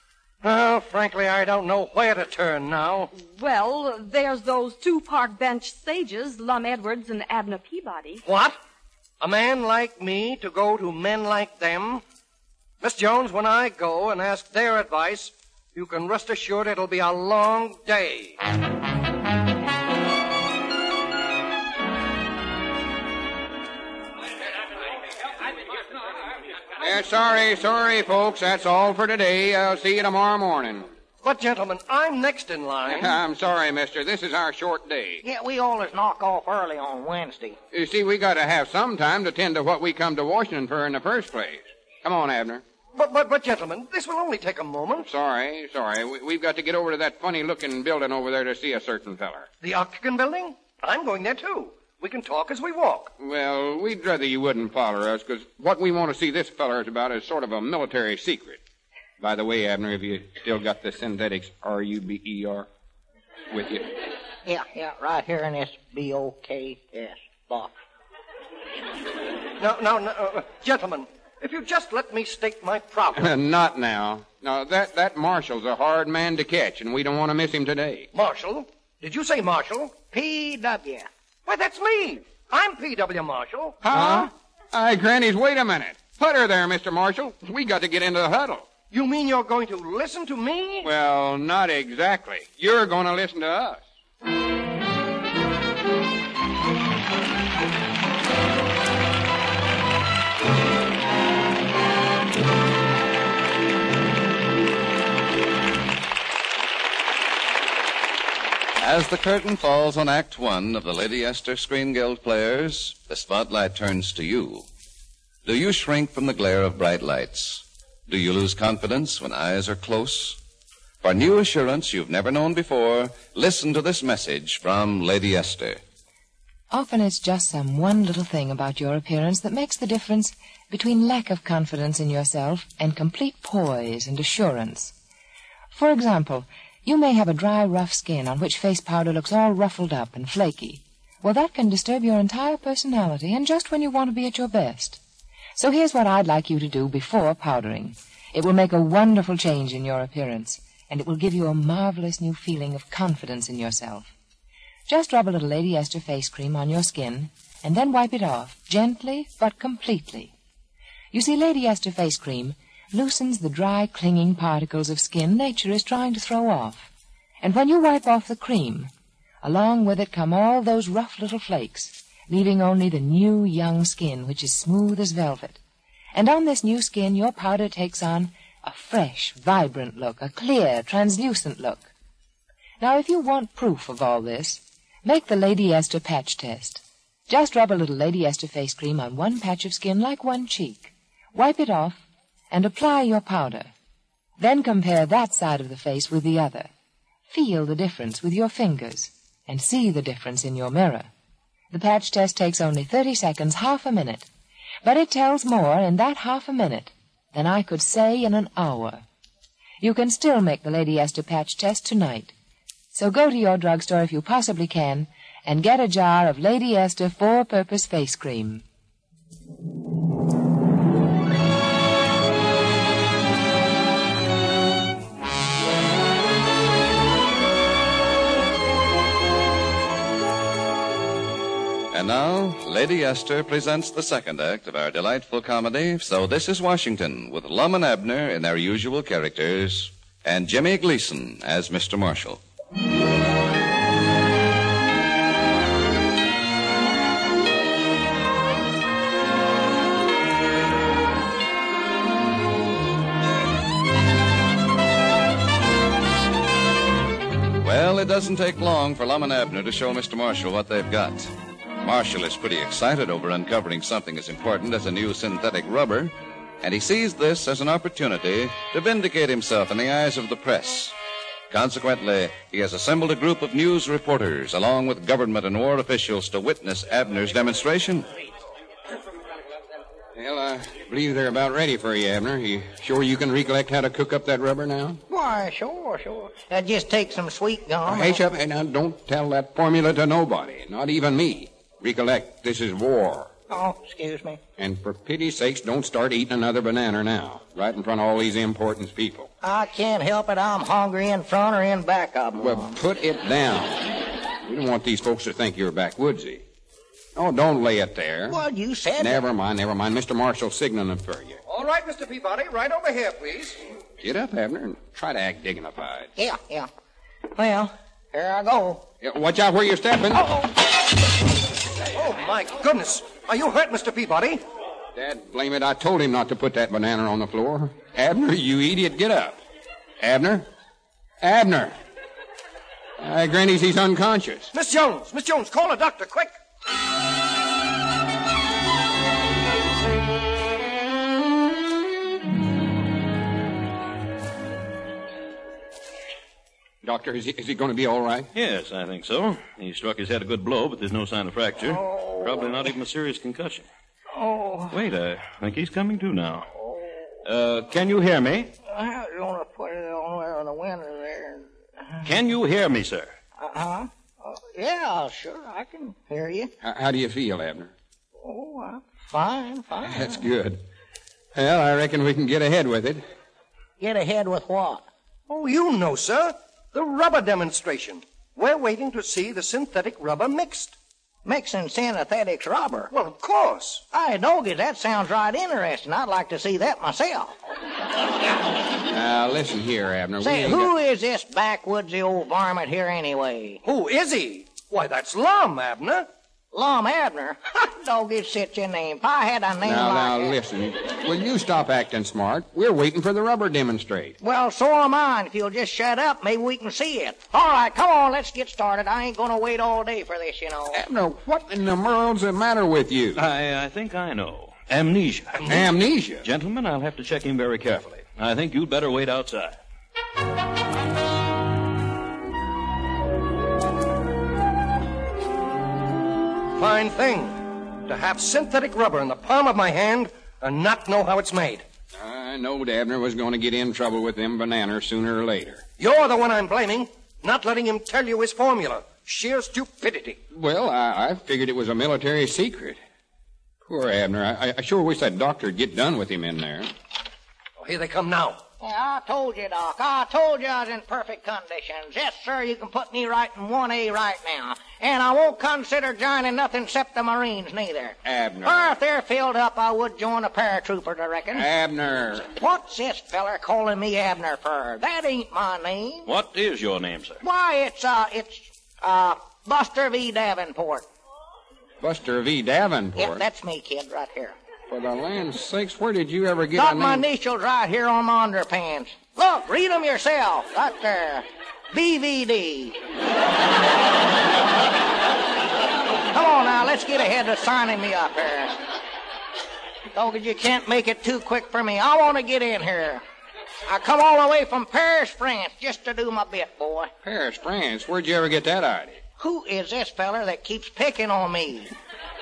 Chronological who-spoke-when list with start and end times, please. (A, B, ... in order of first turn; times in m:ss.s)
0:00.4-0:03.1 A
0:03.1-0:08.2 B
0:08.2-0:08.6 A
0:09.2-0:12.0 A
0:12.8-0:18.4 A
0:26.8-0:30.9 C
0:31.2-0:33.2 A
0:32.9-0:35.2 C
0:35.2-0:37.6 D
0:37.7-0:42.6 C
0:43.0-0:45.1 A
0:45.0-0:49.5 C
0:49.6-0:53.1 A
0:53.2-0:58.6 C
0:59.2-1:02.7 C
1:03.5-1:03.9 C
1:04.5-1:07.7 D
1:09.6-1:13.3 A
1:13.2-1:18.1 C
1:18.1-1:20.0 A
1:20.1-1:21.1 D
1:21.5-1:23.8 A
1:23.8-1:24.3 D
1:23.9-1:28.7 C
1:28.9-1:30.9 A
1:30.8-1:33.8 C
1:48.8-1:54.7 E
1:55.4-2:00.4 E
2:01.0-2:05.8 E
2:06.7-2:14.9 F
2:15.7-2:25.0 F
2:25.6-2:34.1 F
2:34.9-2:40.3 F
2:41.1-2:46.9 F
2:47.4-2:48.9 F
2:49.4-2:55.6 F
2:56.1-3:01.9 F
3:02.8-3:13.7 F
3:14.4-3:16.7 F
3:17.3-3:21.1 F
3:21.7-3:24.3 F
3:24.8-3:29.0 F
3:29.8-3:32.3 F
3:32.9-3:38.6 F
3:51.9-4:02.4 E
4:17.6-4:30.9 E
4:31.5-4:38.1 E
4:40.2-4:45.0 C
4:45.1-4:48.2 D
4:47.9-4:53.3 C
4:53.5-4:54.4 D
4:54.6-4:59.3 C
4:59.4-5:02.7 D
5:02.4-5:03.8 C
5:04.4-5:06.4 C
5:07.2-5:08.4 C
5:08.3-5:09.2 D
5:09.0-5:11.4 C
5:11.5-5:13.6 A
5:14.0-5:16.1 C
5:16.2-5:16.7 D
5:17.4-5:18.8 D
5:19.0-5:20.3 C
5:22.0-5:24.4 A
5:25.0-5:29.4 C
5:30.0-5:30.5 C
5:31.2-5:31.7 C
5:33.0-5:34.5 C
5:34.5-5:36.3 A
5:46.8-5:48.3 C
5:48.3-5:53.7 G
5:51.7-5:52.6 D
5:54.1-5:54.8 D
5:54.7-5:56.5 G
5:57.2-5:58.5 G
5:58.7-6:01.5 D
6:02.0-6:03.1 G
6:03.4-6:06.5 D
6:06.6-6:07.7 C
6:08.2-6:10.2 D
6:09.9-6:10.6 C
6:11.4-6:13.0 C
6:13.8-6:14.8 D
6:15.3-6:20.8 A
6:21.2-6:22.9 D
6:22.9-6:23.8 A
6:23.9-6:27.4 D
6:28.9-6:30.7 C
6:30.2-6:33.6 D
6:33.6-6:36.1 A
6:36.5-6:40.4 D
6:39.6-6:44.2 C
6:44.2-6:50.8 D
6:50.7-6:53.2 C
6:53.2-6:55.6 G
6:55.5-6:56.2 C
6:56.2-6:59.6 G
7:06.6-7:11.6 A
7:12.0-7:15.6 C
7:15.8-7:20.2 A
7:20.3-7:22.8 C
7:23.7-7:26.7 C
7:27.6-7:28.4 A
7:28.6-7:41.5 D
7:38.0-7:38.8 C
7:41.3-7:42.3 C
7:42.3-7:46.1 D
7:46.1-7:47.2 G
7:47.2-7:50.9 D
7:51.8-7:53.2 C
7:53.0-7:54.4 D
7:54.7-7:57.0 C
7:56.6-8:02.8 D
8:06.1-8:08.6 D
8:09.9-8:13.0 D
8:13.7-8:16.9 D
8:17.0-8:19.0 C
8:19.2-8:21.7 D